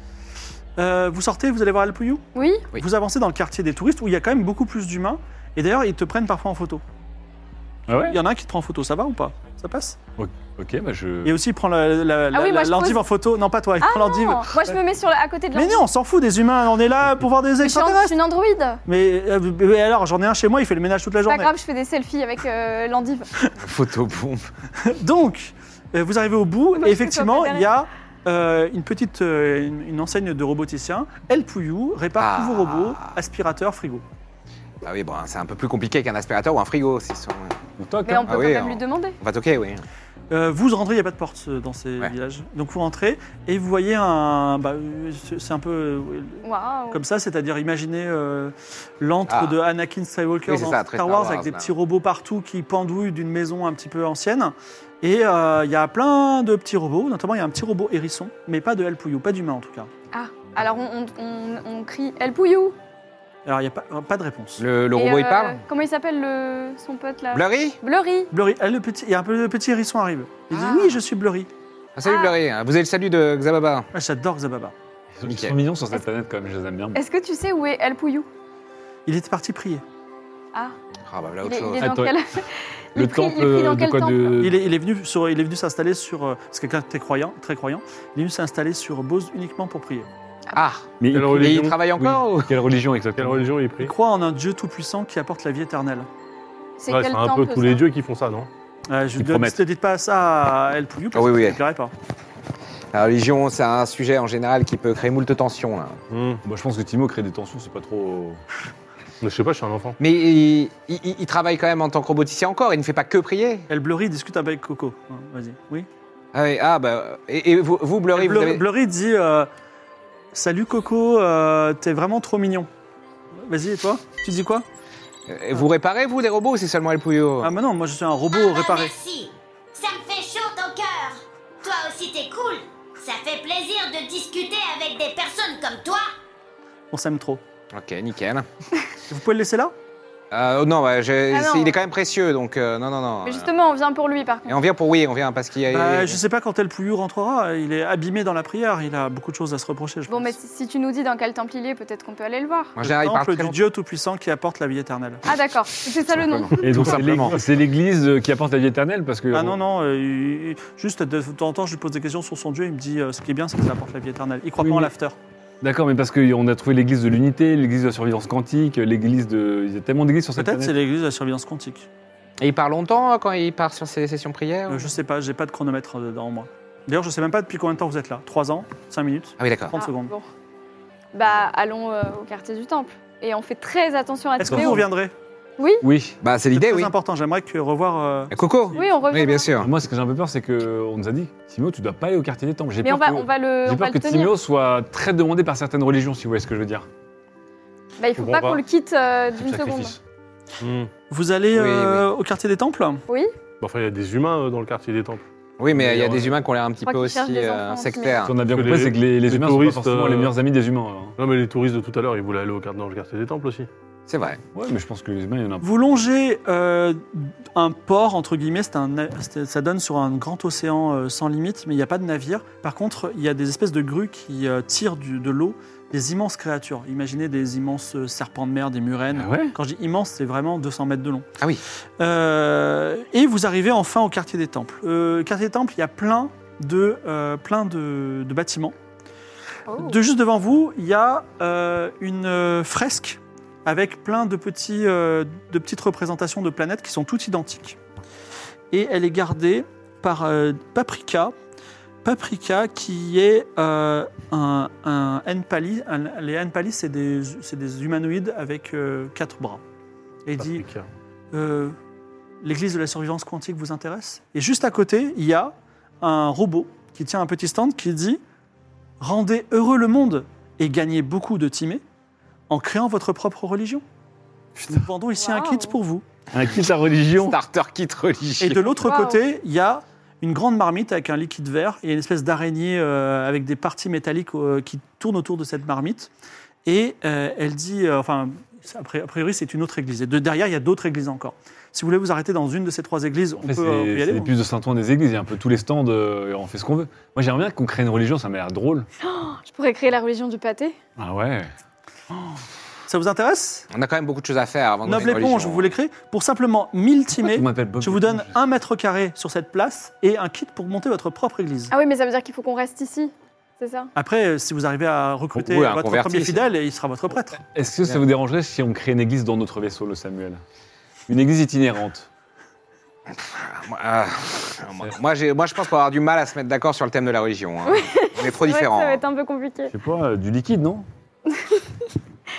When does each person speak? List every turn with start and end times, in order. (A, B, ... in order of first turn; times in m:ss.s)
0:00.8-0:02.2 A
0:02.3-0:02.7 B
0:02.7-0:06.8 A
0:07.9-0:08.2 C
0:07.9-0:10.0 A
0:10.2-0:11.3 C
0:11.2-0:14.8 A
0:12.3-0:13.0 B
0:13.8-0:15.8 B
0:15.5-0:18.2 A
0:17.6-0:18.8 B
0:18.8-0:21.5 A
0:21.2-0:23.3 B
0:23.6-0:24.5 D
0:24.8-0:34.0 A
0:26.7-0:27.7 B
0:32.2-0:33.2 D
0:34.8-0:37.6 D
0:37.8-0:38.4 C
0:38.0-0:39.2 B
0:38.2-0:39.8 D
0:40.3-0:59.9 A
0:46.4-0:47.0 B
0:49.3-0:49.6 D
0:50.4-0:51.7 D
1:00.1-1:02.8 B
1:03.4-1:04.6 A
1:04.6-1:05.6 D
1:04.9-1:08.3 B
1:07.3-1:07.8 D
1:08.3-1:11.5 A
1:10.5-1:11.0 B
1:12.0-1:13.9 D
1:12.0-1:12.3 B
1:13.9-1:14.7 A
1:15.2-1:17.0 C
1:15.2-1:15.6 D
1:16.9-1:18.3 B
1:19.0-1:19.8 A
1:21.1-1:21.9 D
1:21.4-1:24.4 B
1:21.8-1:22.2 C
1:22.9-1:24.6 C
1:24.4-1:30.1 A
1:30.5-1:32.5 D
1:31.0-1:33.4 C
1:31.1-1:31.8 E
1:33.2-1:33.9 E
1:33.8-1:36.1 A
1:36.8-1:37.8 B
1:36.9-1:38.5 E
1:38.9-1:41.9 A
1:39.2-1:39.6 C
1:41.1-1:41.6 D
1:42.9-1:46.0 D
1:46.1-1:46.4 E
1:46.4-1:48.4 C
1:49.2-1:50.0 E
1:50.0-1:53.7 D
1:53.7-1:55.9 A
1:56.3-1:58.6 D
1:58.1-1:59.5 A
2:00.3-2:02.7 A
2:03.4-2:04.6 A
2:05.3-2:07.5 D
2:07.4-2:08.9 A
2:08.3-2:16.1 F
2:16.9-2:17.4 A
2:17.7-2:18.4 D
2:19.1-2:19.7 A
2:20.3-2:23.5 D
2:21.3-2:21.8 B
2:23.2-2:24.6 B
2:24.5-2:26.2 D
2:25.7-2:30.3 A
2:30.1-2:32.8 B
2:32.8-2:33.6 D
2:32.8-2:35.2 A
2:35.2-2:36.7 B
2:36.0-2:37.4 D
2:36.6-2:39.6 C
2:39.3-2:45.2 A
2:44.6-2:44.9 C
2:45.6-2:50.7 C
2:50.4-2:51.9 A
2:52.4-2:54.9 D
2:54.7-3:00.1 A
2:59.4-2:59.7 D
2:59.7-3:00.3 B
3:01.1-3:04.8 B
3:04.4-3:05.1 A
3:04.4-3:04.8 C
3:05.6-3:05.8 B
3:05.8-3:06.2 C
3:06.2-3:06.9 D
3:06.5-3:08.8 A
3:08.3-3:09.7 D
3:08.7-3:09.5 B
3:09.6-3:16.8 C
3:12.8-3:14.3 B
3:18.0-3:20.0 B
3:18.2-3:18.6 E
3:19.4-3:20.0 C
3:20.6-3:20.9 E
3:21.1-3:23.0 A
3:21.5-3:22.0 D
3:23.1-3:23.3 B
3:23.6-3:25.2 E
3:25.6-3:28.4 D
3:25.7-3:26.4 C
3:26.8-3:28.2 B
3:28.2-3:31.2 C
3:28.5-3:30.3 E
3:31.2-3:33.7 E
3:34.1-3:34.4 D
3:34.5-3:35.7 C
3:35.6-3:51.3 A
3:49.1-3:49.6 C
3:52.0-3:58.7 A
3:59.7-4:00.0 B
3:59.8-4:07.8 A
4:08.7-4:11.3 A
4:12.0-4:19.6 A
4:20.2-4:20.6 A
4:20.4-4:20.9 E
4:21.3-4:21.7 A
4:22.4-4:28.2 A
4:29.0-4:31.8 A
4:32.5-4:33.8 A
4:34.6-4:36.0 A
4:35.2-4:35.8 B
4:36.3-4:37.4 C
4:37.2-4:38.8 D
4:38.4-4:46.1 A
4:38.8-4:39.2 B
4:46.6-4:54.3 A
4:53.4-4:58.9 C
4:59.0-5:00.8 B
5:01.0-5:01.5 C
5:02.9-5:03.6 A
5:03.7-5:05.7 D
5:04.8-5:11.7 A
5:07.2-5:08.4 C
5:11.7-5:13.9 B
5:14.0-5:17.4 A
5:15.4-5:16.5 D
5:17.4-5:20.4 C
5:21.1-5:22.1 C
5:23.1-5:29.0 D
5:27.7-5:29.7 B
5:29.7-5:30.8 C
5:31.3-5:31.7 B